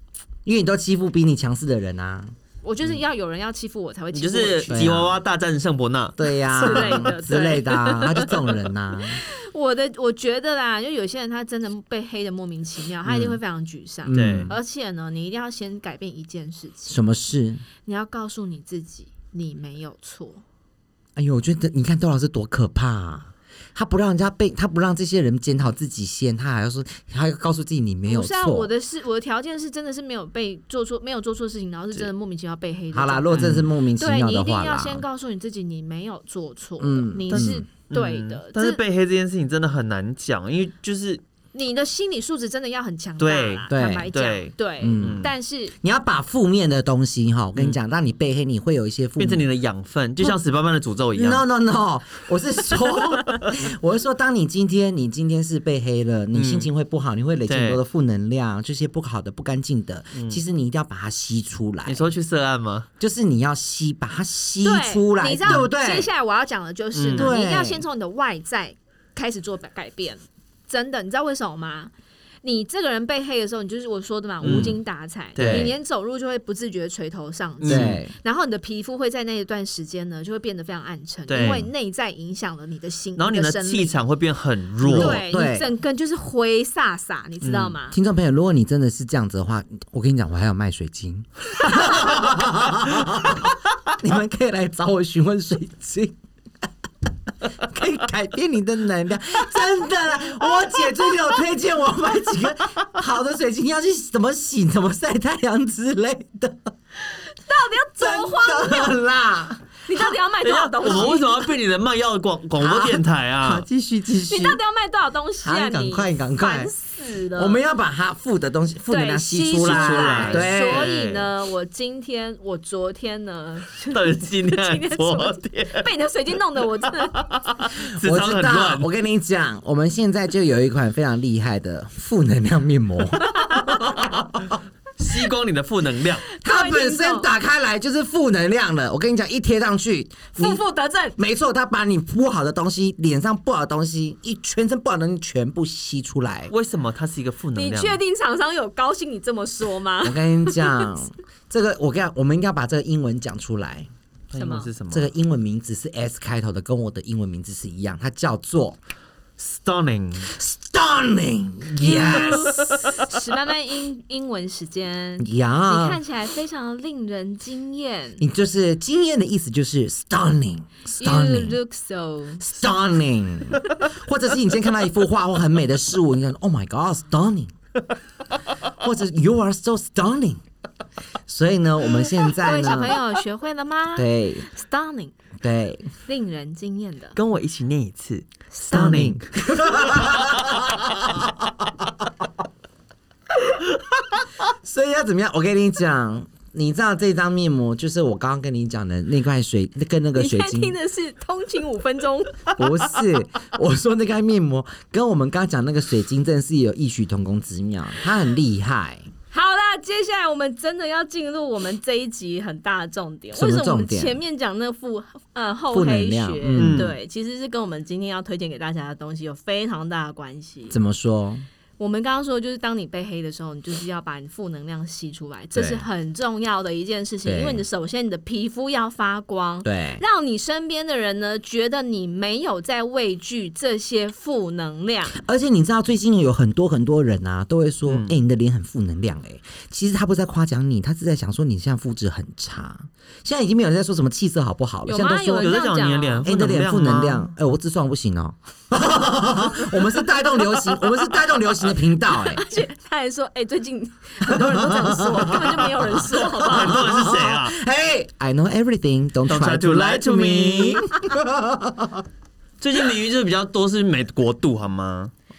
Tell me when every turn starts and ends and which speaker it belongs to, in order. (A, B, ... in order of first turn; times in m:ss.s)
0:00.4-0:02.3 A
0:02.6-0:05.0 B
0:04.1-0:07.2 C
0:04.7-0:05.2 A
0:06.2-0:09.2 A
0:06.6-0:08.5 B
0:09.2-0:17.0 B
0:13.1-0:13.4 A
0:14.0-0:14.6 A
0:14.1-0:14.5 C
0:16.9-0:17.6 A
0:17.8-0:20.4 B
0:21.2-0:28.7 A
0:28.1-0:38.8 B
0:32.9-0:35.0 A
0:33.4-0:33.6 C
0:36.8-0:37.6 A
0:37.3-0:41.2 C
0:41.5-0:45.7 B
0:43.2-0:45.3 C
0:43.7-0:44.1 A
0:44.8-0:45.3 A
0:45.8-0:49.4 A
0:49.2-0:51.4 C
0:51.1-1:02.1 A
0:56.3-0:56.7 C
0:57.5-0:57.8 C
1:00.1-1:00.4 C
1:01.9-1:02.9 C
1:03.0-1:06.1 A
1:04.6-1:11.9 B
1:07.0-1:07.3 C
1:07.1-1:07.8 A
1:12.4-1:24.0 B
1:14.4-1:14.8 C
1:14.4-1:14.8 A
1:15.4-1:15.7 C
1:15.4-1:15.7 A
1:17.6-1:18.0 C
1:17.7-1:18.1 A
1:21.3-1:21.7 C
1:21.4-1:21.7 A
1:23.2-1:25.2 C
1:24.8-1:25.7 A
1:24.9-1:28.0 B
1:27.4-1:27.8 C
1:27.9-1:36.2 A
1:37.6-1:46.7 A
1:47.1-1:48.9 B
1:48.0-1:49.7 A
1:49.9-1:51.4 B
1:50.4-1:53.7 C
1:50.8-1:51.2 A
1:52.6-1:54.6 A
1:54.3-1:57.6 B
1:55.4-1:56.7 A
1:57.4-2:00.9 A
1:58.9-2:07.4 B
1:59.6-2:01.3 C
2:03.9-2:05.9 C
2:07.1-2:08.9 C
2:08.0-2:14.6 A
2:13.2-2:13.8 B
2:15.0-2:16.2 C
2:16.3-2:17.3 B
2:16.4-2:20.6 A
2:20.3-2:21.2 B
2:21.2-2:26.5 A
2:26.5-2:28.0 C
2:27.6-2:31.0 B
2:30.0-2:33.9 A
2:34.3-2:35.1 C
2:34.3-2:34.7 B
2:34.9-2:38.8 A
2:39.4-2:40.3 C
2:40.3-2:42.6 A
2:41.8-2:48.2 B
2:45.2-2:46.0 A
2:48.2-2:51.6 A
2:51.0-2:52.4 B
2:52.4-2:57.5 A
2:58.8-3:00.4 A
3:01.3-3:03.0 A
3:02.4-3:05.2 B
3:04.0-3:04.5 A
3:05.4-3:05.9 A
3:06.0-3:07.2 B
3:07.2-3:10.6 C
3:08.5-3:09.2 B
3:08.7-3:11.8 A
3:14.4-3:20.8 A
3:20.2-3:22.6 B
3:22.6-3:29.1 A
3:29.3-3:40.8 B
3:33.4-3:34.2 A
3:35.7-3:36.9 A
3:36.6-3:37.0 C
3:40.7-3:41.5 A
3:41.8-3:55.2 B
3:45.6-3:45.8 A
3:47.2-3:47.6 A
3:49.6-3:50.0 A
3:55.2-4:05.6 A
3:57.9-3:58.1 C
4:04.9-4:06.3 B
4:05.4-4:07.3 C
4:06.2-4:12.4 A
4:12.1-4:16.8 B
4:14.2-4:22.1 A
4:16.4-4:17.6 C
4:19.3-4:20.9 C
4:22.6-4:25.1 C